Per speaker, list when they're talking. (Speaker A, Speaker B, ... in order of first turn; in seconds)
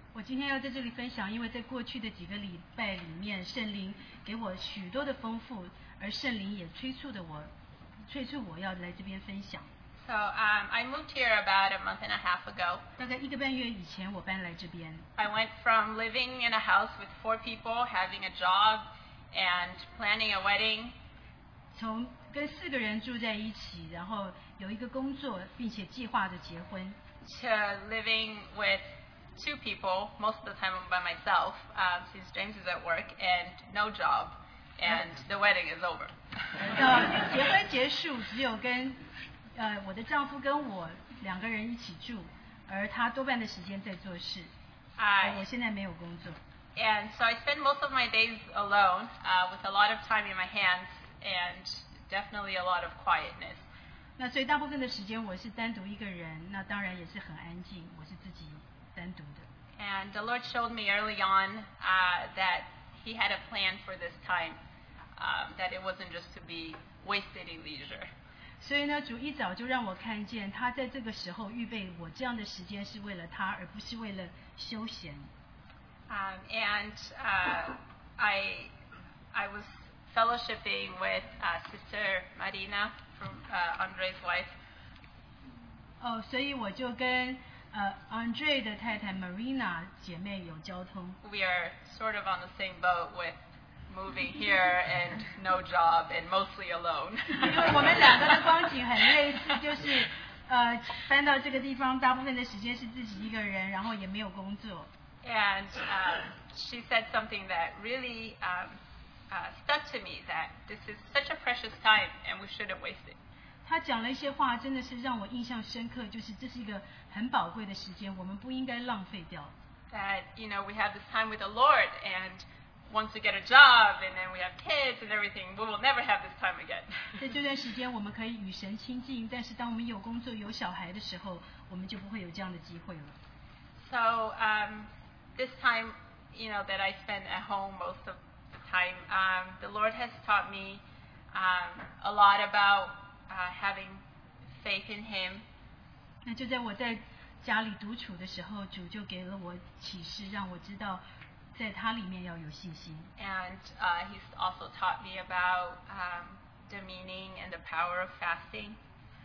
Speaker A: 0.1-7.5, 8.1-9.7, 13.0-15.0, 21.7-27.0, 36.7-39.0, 39.5-44.5, 45.2-46.4, 54.2-59.5, 68.6-75.3, 86.0-91.2, 97.4-104.9, 113.6-119.5, 127.2-133.2, 146.2-151.0, 151.5-153.1
Speaker B: 10.0-12.8, 15.2-20.9, 27.2-28.8, 29.4-36.1, 45.0-45.4, 46.8-53.6, 59.8-64.6, 65.2-68.1, 76.1-78.7, 79.3-84.5, 91.2-93.4, 93.9-98.5, 105.2-108.8, 109.3-113.2, 119.9-127.1, 133.8-144.0, 144.6-145.4, 153.2-158.8